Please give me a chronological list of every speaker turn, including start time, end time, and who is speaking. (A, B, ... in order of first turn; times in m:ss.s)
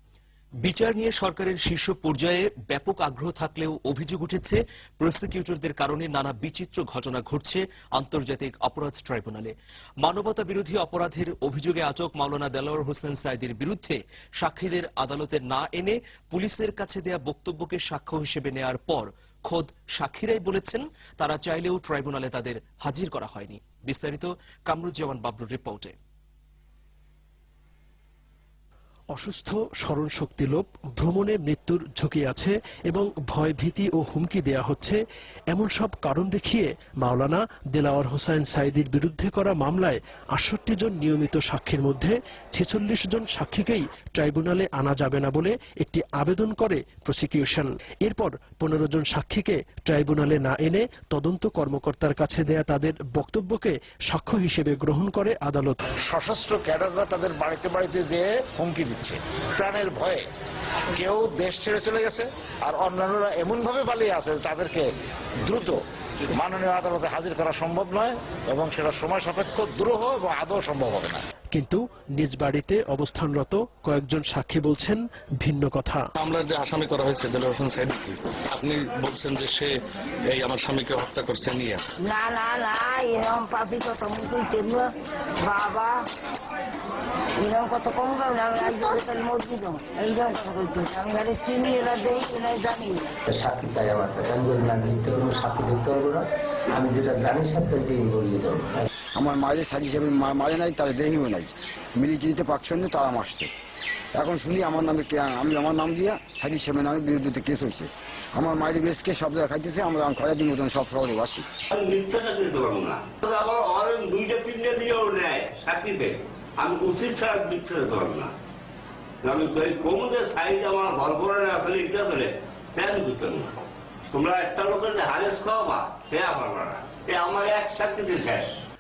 0:00.6-0:26.0 A
0:29.1-0:35.0 B
0:35.5-0:55.8 B
0:56.1-1:00.2 C
1:00.9-1:04.8 C
1:05.4-1:05.8 C
1:06.3-1:11.2 C
1:11.5-1:16.0 B
1:16.2-1:19.7 D
1:20.3-1:21.8 D
1:22.0-1:24.9 E
1:25.4-1:26.0 E
1:27.4-1:33.1 E
1:33.3-1:38.9 F
1:39.2-1:43.5 G
1:44.2-1:51.5 G
1:51.7-1:58.3 H
1:59.2-2:03.5 H
2:04.1-2:08.6 H